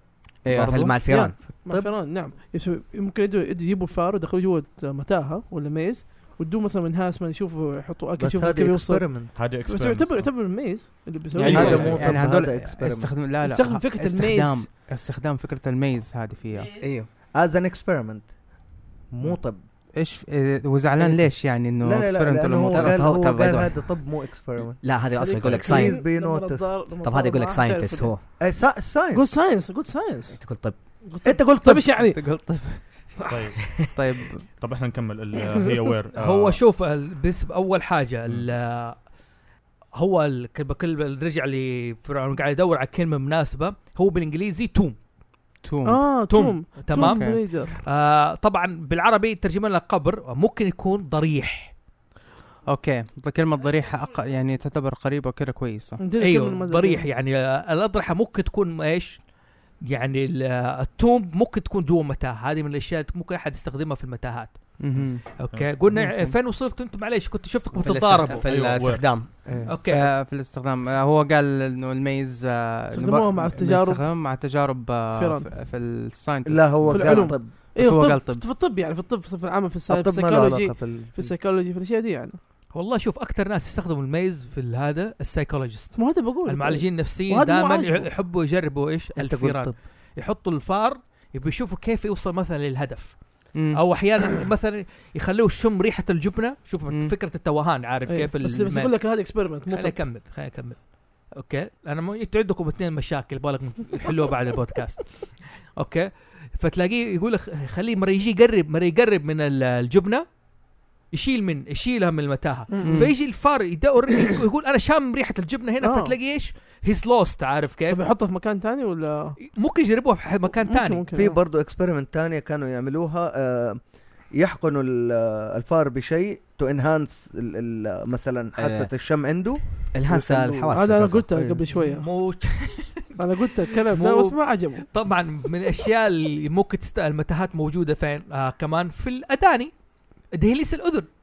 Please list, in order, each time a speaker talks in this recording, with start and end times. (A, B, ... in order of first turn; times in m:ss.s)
0:00.4-0:01.4 A
0:00.4-0:01.0 B
0:01.1-0:12.0 C
0:01.5-0:01.9 D
0:08.2-0:09.5 D
0:09.3-0:10.6 E
0:11.4-0:12.2 E
0:11.4-0:16.7 B
0:11.5-0:13.3 D
0:13.4-0:14.7 C
0:16.8-0:17.1 A
0:17.3-0:18.3 D
0:19.1-0:19.6 D
0:20.0-0:23.3 B
0:21.0-0:21.2 D
0:21.8-0:26.7 D
0:22.7-0:23.8 A
0:24.8-0:26.0 A
0:25.2-0:28.3 C
0:27.0-0:28.2 A
0:28.4-0:29.2 D
0:29.1-0:30.4 C
0:30.4-0:30.8 A
0:31.0-0:32.3 C
0:31.2-0:31.9 D
0:32.0-0:33.0 B
0:33.2-0:33.5 C
0:33.3-0:33.8 E
0:33.8-0:34.4 B
0:34.6-0:36.6 E
0:36.1-0:39.0 F
0:40.0-0:45.0 F
0:45.6-0:46.1 B
0:45.8-0:47.8 C
0:46.3-0:51.7 F
0:46.9-0:47.4 B
0:52.6-0:56.0 B
0:56.0-0:57.1 C
0:56.2-0:59.2 F
0:59.8-1:04.6 F
1:04.8-1:05.3 B
1:05.4-1:08.5 F
1:05.5-1:05.8 E
1:05.9-1:06.4 B
1:07.7-1:09.6 A
1:08.4-1:09.2 E
1:09.5-1:09.7 D
1:09.7-1:10.1 F
1:09.8-1:18.4 B
1:12.9-1:14.0 C
1:15.1-1:15.5 C
1:16.4-1:17.6 D
1:16.9-1:22.4 C
1:19.9-1:21.3 D
1:22.7-1:50.2 F
1:25.9-1:28.1 C
1:29.2-1:29.8 D
1:33.5-1:33.8 B
1:36.9-1:37.1 B
1:38.1-1:40.1 C
1:51.1-1:58.0 F
1:52.7-1:53.1 C
1:52.8-1:53.1 B
1:55.8-1:56.1 C
1:57.9-1:59.4 C
1:59.4-2:01.0 F
2:00.6-2:01.4 C
2:01.1-2:03.8 D
2:04.3-2:11.6 D
2:08.6-2:08.9 A
2:09.7-2:11.3 A
2:10.7-2:12.1 C
2:11.7-2:13.1 F
2:13.2-2:14.8 C
2:13.9-2:19.7 F
2:20.3-2:21.1 F